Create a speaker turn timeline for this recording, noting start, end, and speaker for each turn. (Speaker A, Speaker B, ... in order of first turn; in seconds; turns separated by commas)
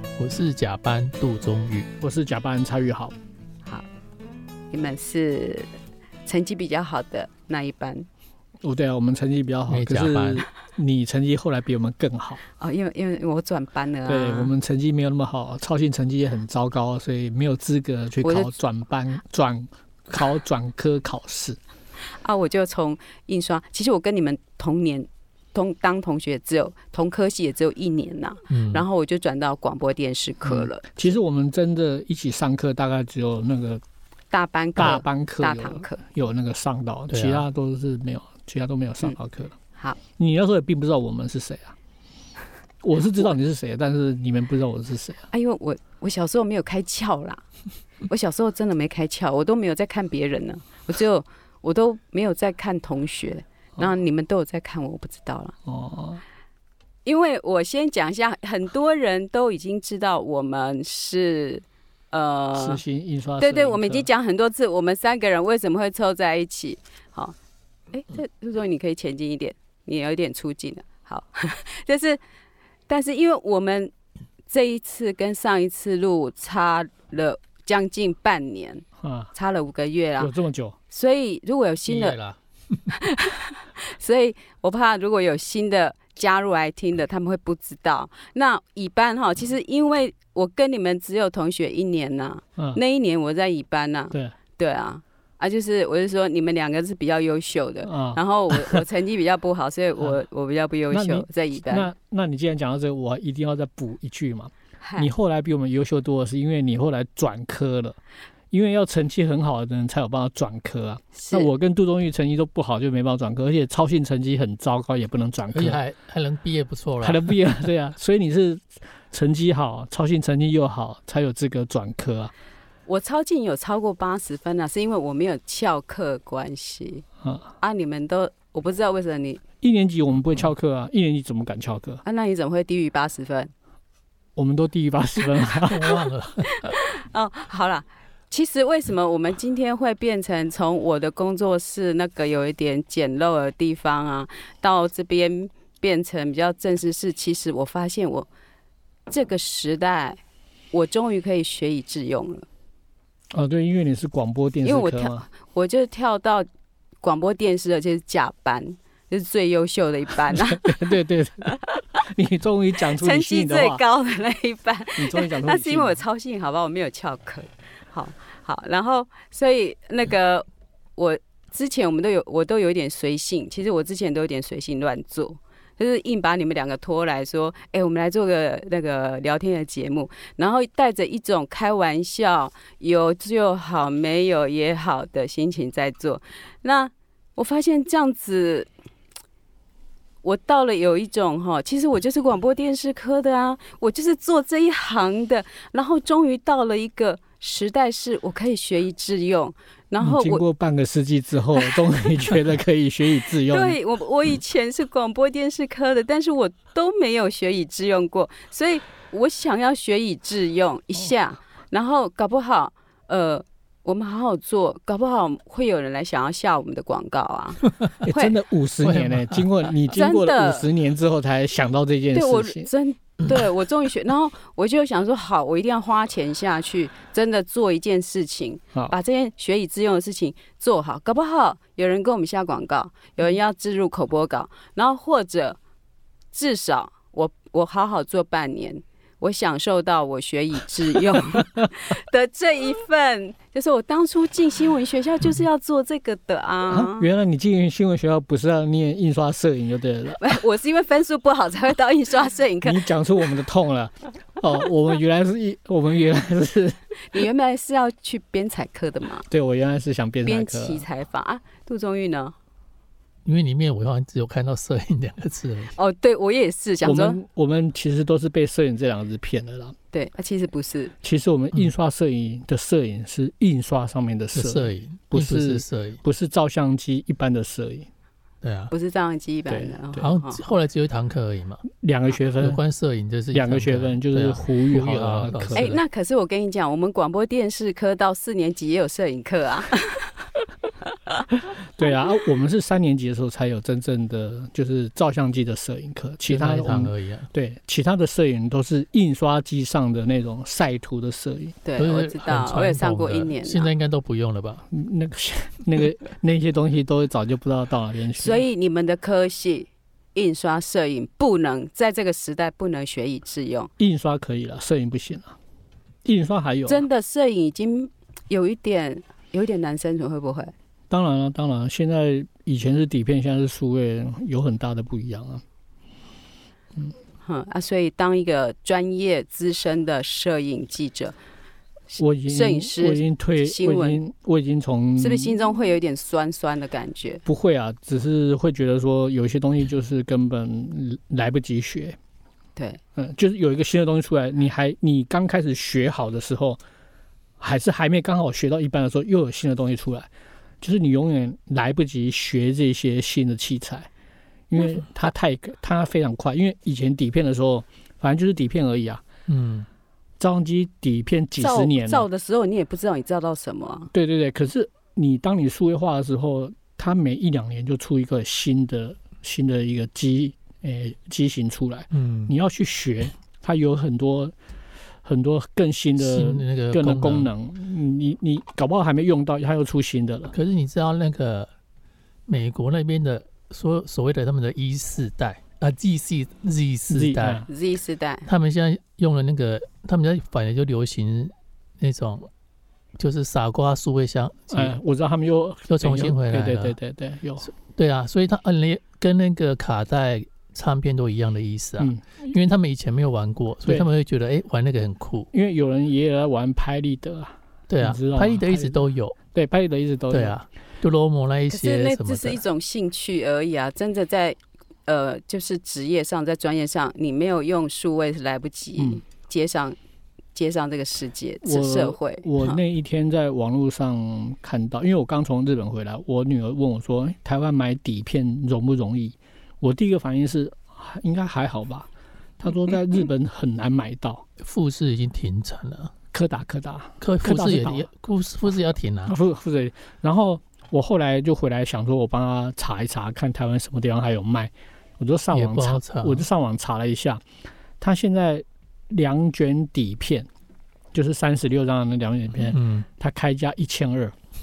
Speaker A: 0.2-1.9, Speaker B: 2.0-3.1, Speaker C: 4.7-5.7, Speaker C: 6.3-8.1, Speaker B: 8.6-12.4, Speaker A: 9.7-10.4, Speaker C: 12.6-14.5, Speaker B: 14.1-21.6, Speaker C: 18.2-18.5, Speaker C: 22.1-30.9, Speaker A: 28.5-28.8, Speaker B: 30.4-33.8, Speaker C: 34.3-36.0, Speaker B: 34.8-39.5, Speaker A: 37.1-37.5, Speaker B: 40.2-41.8, Speaker B: 42.8-45.2, Speaker C: 45.3-47.4, Speaker C: 48.1-55.5, Speaker B: 55.7-56.2, Speaker C: 57.1-62.8, Speaker B: 62.5-64.1, Speaker C: 63.4-67.3, Speaker C: 67.9-72.2, Speaker C: 72.9-73.9, Speaker C: 74.5-80.3, Speaker B: 79.0-79.3, Speaker B: 80.2-80.8, Speaker C: 80.9-82.2, Speaker A: 81.9-82.4, Speaker C: 82.9-101.9, Speaker B: 97.8-98.8, Speaker B: 100.9-108.0, Speaker C: 104.8-105.1, Speaker B: 108.5-115.8, Speaker C: 111.2-111.5, Speaker A: 115.5-117.3, Speaker B: 117.0-122.3, Speaker C: 122.9-127.0, Speaker C: 127.6-129.4, Speaker B: 129.6-132.0, Speaker C: 132.0-133.5, Speaker B: 134.4-136.0, Speaker A: 135.7-136.8, Speaker C: 136.5-148.3, Speaker C: 149.1-150.2, Speaker C: 150.7-152.5, Speaker B: 153.3-155.2, Speaker C: 154.6-156.5, Speaker C: 157.0-160.9, Speaker B: 160.3-163.8, Speaker C: 162.9-170.5, Speaker B: 165.0-166.0, Speaker C: 171.0-188.7, Speaker C: 190.2-200.4, Speaker B: 200.0-203.8, Speaker C: 201.6-202.1, Speaker C: 203.5-218.3, Speaker B: 218.0-222.7, Speaker A: 218.8-219.5, Speaker C: 219.9-220.7, Speaker C: 222.1-235.6, Speaker C: 236.3-247.1, Speaker B: 246.7-250.3, Speaker C: 250.2-252.8, Speaker B: 252.6-256.8, Speaker C: 257.1-259.3, Speaker B: 259.3-260.9, Speaker C: 260.2-262.4, Speaker A: 263.2-265.7, Speaker C: 265.8-267.2, Speaker B: 266.8-269.8, Speaker C: 269.9-270.9, Speaker B: 271.0-277.9, Speaker A: 274.3-276.0, Speaker A: 278.4-278.7, Speaker C: 278.7-280.4, Speaker B: 279.5-280.0, Speaker A: 280.0-281.6, Speaker B: 281.8-282.6, Speaker A: 282.4-285.8, Speaker B: 283.3-285.7, Speaker C: 285.6-290.1, Speaker B: 291.8-301.6, Speaker A: 296.3-297.3, Speaker C: 301.6-303.7, Speaker A: 301.8-304.6, Speaker B: 304.7-308.4, Speaker C: 308.2-313.7, Speaker B: 313.8-315.4, Speaker B: 316.1-316.8, Speaker C: 316.7-320.5, Speaker B: 320.9-325.4, Speaker C: 327.2-331.1, Speaker B: 332.0-335.4, Speaker C: 332.3-334.0, Speaker C: 335.0-337.2, Speaker B: 337.3-342.0, Speaker B: 342.9-346.6, Speaker B: 347.4-350.1, Speaker B: 350.6-353.9, Speaker B: 354.5-359.0, Speaker A: 359.3-359.7, Speaker B: 360.2-362.0, Speaker C: 361.4-363.9, Speaker B: 363.9-374.3, Speaker A: 371.9-372.3, Speaker B: 375.1-380.3, Speaker A: 376.0-377.3, Speaker A: 380.3-381.5, Speaker A: 382.3-387.5, Speaker B: 386.9-387.5, Speaker C: 387.5-388.3, Speaker A: 388.2-392.3, Speaker A: 393.0-394.8, Speaker B: 394.5-397.5, Speaker A: 395.7-396.8, Speaker A: 397.5-405.3, Speaker B: 401.8-402.3, Speaker B: 405.3-408.8, Speaker A: 407.7-409.2, Speaker B: 409.3-410.4, Speaker A: 410.1-412.4, Speaker C: 411.5-414.4, Speaker C: 414.9-419.8, Speaker C: 420.4-422.6, Speaker B: 421.4-431.9, Speaker B: 432.4-434.2, Speaker A: 434.4-435.9, Speaker B: 436.1-437.9, Speaker A: 437.0-439.1, Speaker B: 439.1-447.2, Speaker A: 445.3-446.2, Speaker B: 447.8-450.3, Speaker B: 450.9-454.1, Speaker A: 452.5-452.9